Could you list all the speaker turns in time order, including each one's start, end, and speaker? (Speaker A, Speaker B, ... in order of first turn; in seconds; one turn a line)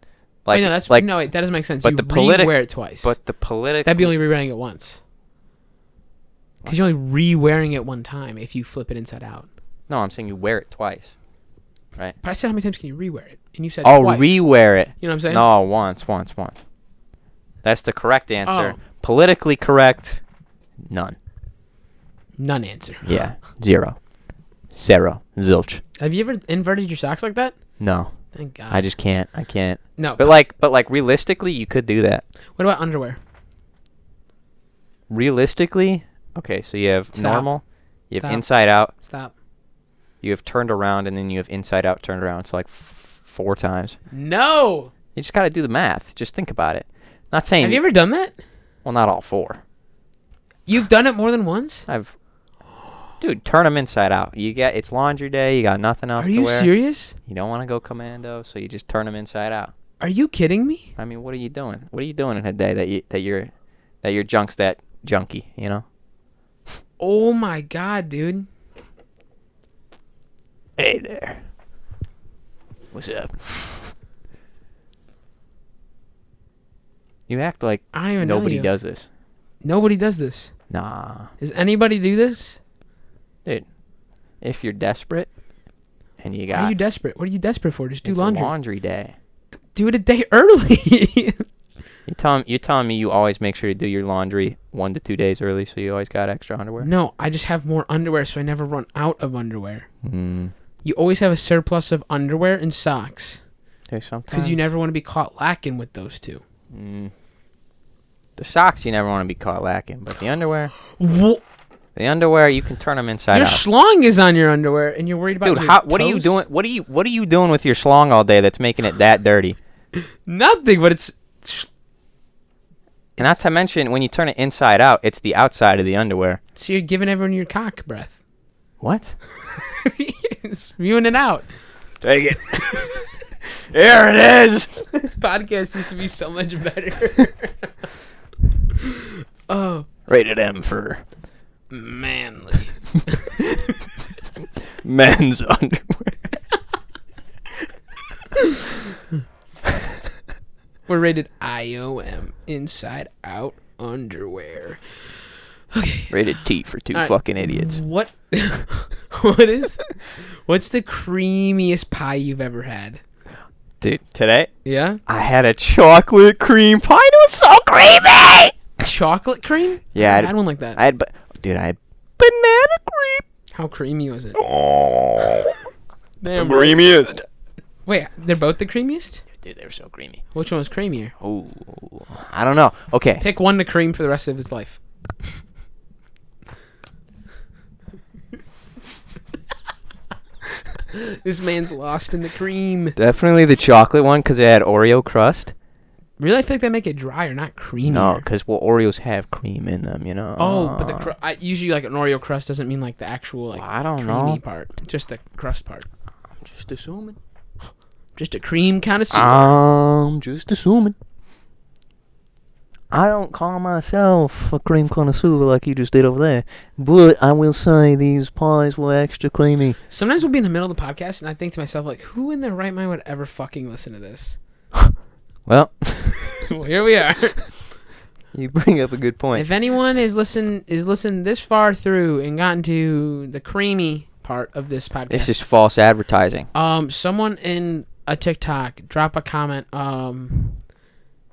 Speaker A: 0.5-1.1
Speaker B: 0.5-3.1
Speaker A: 1.8-4.1
Speaker B: 3.9-5.0
Speaker B: 6.7-9.5
Speaker A: 9.9-11.1
Speaker B: 12.2-14.5
Speaker A: 13.8-16.6
Speaker B: 15.0-15.4
Speaker A: 17.6-20.2
Speaker B: 18.4-18.8
Speaker A: 20.9-21.2
Speaker B: 22.4-23.2
Speaker A: 23.0-24.0
Speaker A: 24.7-25.8
Speaker B: 26.0-27.6
Speaker A: 27.8-28.1
Speaker B: 28.3-28.9
Speaker A: 28.7-32.2
Speaker B: 30.0-30.3
Speaker B: 32.6-33.2
Speaker A: 35.1-38.9
Speaker B: 37.1-37.5
Speaker B: 38.2-39.3
Speaker A: 40.2-44.0
Speaker B: 44.1-44.9
Speaker A: 45.1-47.8
Speaker B: 47.6-48.4
Speaker A: 48.9-49.6
Speaker B: 50.7-51.9
Speaker A: 51.9-52.1
Speaker A: 53.2-59.7
Speaker B: 56.2-57.2
Speaker B: 60.0-60.9
Speaker A: 61.0-63.5
Speaker A: 64.0-65.8
Speaker B: 67.0-68.5
Speaker A: 70.8-71.4
Speaker A: 72.9-73.9
Speaker A: 77.3-79.1
Speaker B: 77.9-78.7
Speaker B: 79.6-80.5
Speaker A: 80.7-81.3
Speaker B: 81.4-82.6
Speaker A: 84.4-85.3
Speaker A: 86.2-86.8
Speaker B: 86.5-88.5
Speaker A: 88.0-89.2
Speaker B: 89.8-91.5
Speaker A: 92.1-96.9
Speaker B: 96.8-99.9
Speaker A: 100.0-100.5
Speaker B: 100.8-103.4
Speaker A: 103.9-104.6
Speaker B: 104.3-106.4
Speaker A: 106.7-107.1
Speaker A: 108.4-110.7
Speaker B: 110.9-111.4
Speaker A: 112.0-113.6
Speaker B: 113.3-116.4
Speaker A: 115.4-119.6
Speaker B: 120.3-121.7
Speaker A: 123.2-126.4
Speaker B: 126.6-128.2
Speaker A: 128.8-129.2
Speaker B: 129.5-131.5
Speaker A: 132.0-132.9
Speaker B: 132.6-133.1
Speaker A: 133.7-135.1
Speaker B: 135.2-137.7
Speaker B: 138.8-139.9
Speaker A: 140.1-141.0
Speaker B: 141.7-143.5
Speaker A: 144.8-146.3
Speaker B: 150.9-155.2
Speaker B: 155.7-156.2
Speaker A: 156.1-157.8
Speaker B: 156.9-163.0
Speaker A: 163.8-164.5
Speaker B: 164.7-165.0
Speaker A: 165.1-168.6
Speaker B: 168.8-170.8
Speaker A: 169.9-173.2
Speaker B: 173.5-174.4
Speaker A: 174.4-175.6
Speaker B: 176.2-176.9
Speaker A: 176.3-177.3
Speaker B: 177.9-179.2
Speaker A: 179.4-180.2
Speaker B: 180.3-181.1
Speaker A: 181.2-183.2
Speaker B: 183.2-184.8
Speaker B: 190.9-193.0
Speaker A: 193.0-195.5
Speaker B: 196.2-198.2
Speaker A: 197.9-201.1
Speaker B: 200.4-205.9
Speaker A: 203.5-204.4
Speaker A: 206.4-207.2
Speaker B: 208.2-209.6
Speaker A: 209.1-211.0
Speaker A: 212.9-219.8
Speaker B: 219.9-224.4
Speaker A: 225.5-226.4
Speaker B: 226.4-227.7
Speaker A: 228.3-229.5
Speaker B: 229.3-235.4
Speaker A: 235.1-236.5
Speaker B: 236.5-240.6